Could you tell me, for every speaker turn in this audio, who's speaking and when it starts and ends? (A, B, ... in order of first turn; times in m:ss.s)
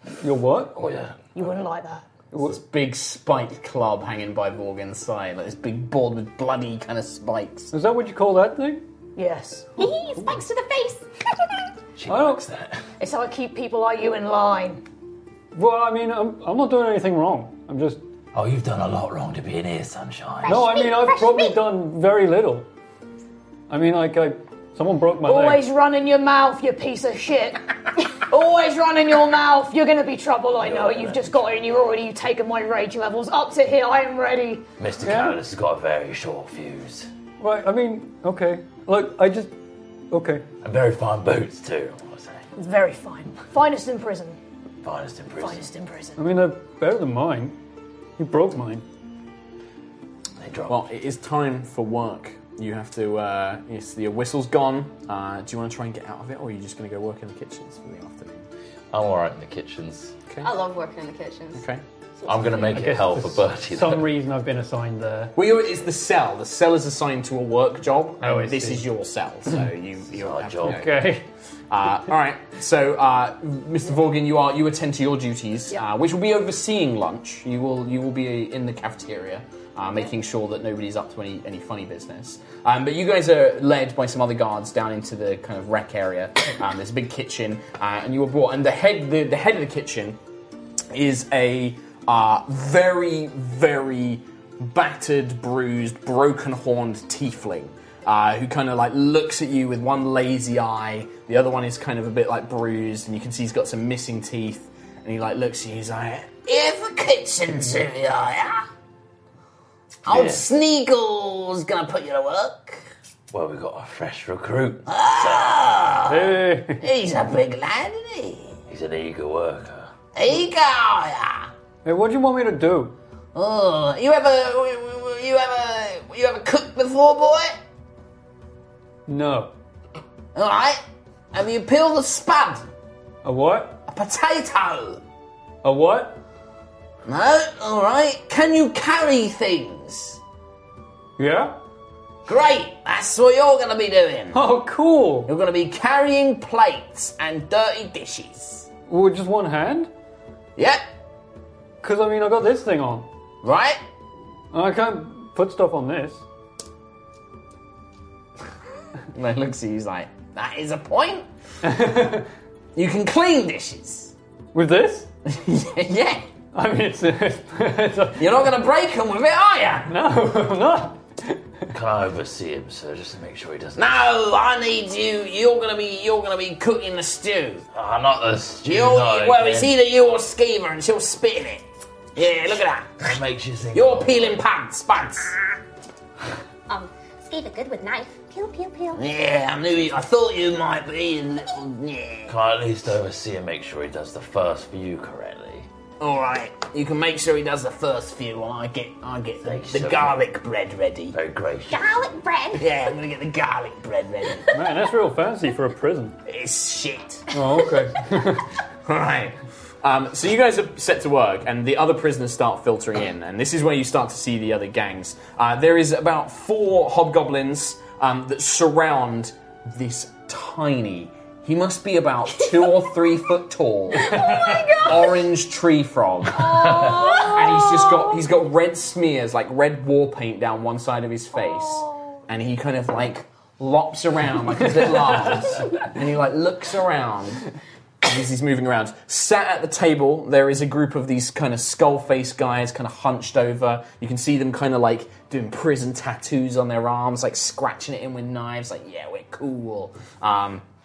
0:00.2-0:00.8 A
0:00.8-0:01.3 B
0:01.3-0:02.0 C
0:02.3-0:02.6 A
0:02.4-0:07.7 D
0:07.7-0:08.8 A
0:09.2-0:09.7 C
0:09.8-0:11.1 E
0:12.0-0:12.8 B
0:12.0-0:12.4 A
0:13.0-0:14.8 C
0:15.5-0:18.0 A
0:18.3-0:20.7 B
0:20.4-0:21.6 E
0:20.4-0:22.7 A
0:23.7-0:25.6 A
0:25.2-0:27.6 C
0:28.1-0:34.6 C
0:30.6-0:31.5 B
0:34.8-0:37.1 B
0:35.0-0:35.4 A
0:37.4-0:39.5 A
0:40.1-0:40.4 A
0:40.6-0:42.4 B
0:42.6-0:44.4 C
0:44.8-0:45.7 B
0:45.4-0:46.2 C
0:46.2-0:47.6 A
0:48.2-0:48.8 A
0:50.4-0:50.9 B
0:50.7-0:58.4 D
0:58.9-1:00.1 B
1:00.4-1:01.6 E
1:01.6-1:01.8 D
1:02.2-1:02.9 E
1:02.2-1:04.1 B
1:02.7-1:05.4 A
1:05.4-1:10.9 D
1:08.2-1:08.9 A
1:10.1-1:10.9 B
1:10.6-1:11.2 A
1:11.7-1:30.2 D
1:30.9-1:46.4 D
1:46.4-1:48.6 F
1:50.0-1:52.8 F
1:50.1-1:50.4 B
1:53.3-1:55.7 B
1:54.8-1:58.6 F
1:56.1-1:56.8 A
1:58.7-1:59.9 B
2:00.1-2:01.5 F
2:01.8-2:03.0 A
2:03.3-2:07.6 F
2:09.1-2:09.5 A
2:10.3-2:10.8 F
2:11.3-2:12.6 F
2:13.2-2:13.8 A
2:13.9-2:15.0 F
2:15.6-2:16.2 A
2:17.0-2:20.2 F
2:21.2-2:21.6 A
2:22.2-2:24.4 F
2:24.3-2:25.3 A
2:25.3-2:28.7 F
2:28.9-2:29.9 A
2:31.8-2:33.1 A
2:33.4-2:33.8 F
2:34.5-2:36.2 A
2:39.1-2:40.3 D
2:40.2-2:41.2 F
2:41.6-2:42.3 A
2:42.7-2:44.1 F
2:44.5-2:45.1 A
2:45.4-2:46.2 D
2:46.5-2:48.2 A
2:48.2-2:49.9 F
2:49.9-2:51.4 A
2:51.7-2:53.8 B
2:53.8-2:57.6 F
2:57.7-2:59.7 B
2:58.6-3:03.1 F
3:03.0-3:04.4 B
3:03.7-3:05.4 F
3:06.7-3:09.0 E
3:08.9-3:12.3 F
3:12.3-3:15.7 B
3:16.0-3:21.2 F
3:19.4-3:20.2 B
3:21.1-3:21.9 B
3:21.7-3:22.6 E
3:22.6-3:24.5 F
3:24.5-3:26.1 A
3:26.3-3:27.2 F
3:27.3-3:28.4 A
3:28.9-3:29.2 F
3:29.8-3:57.4 D
3:43.9-3:45.2 E
3:46.3-3:48.2 E
3:46.5-3:46.8 B
3:51.4-3:51.9 E
3:58.0-4:10.6 D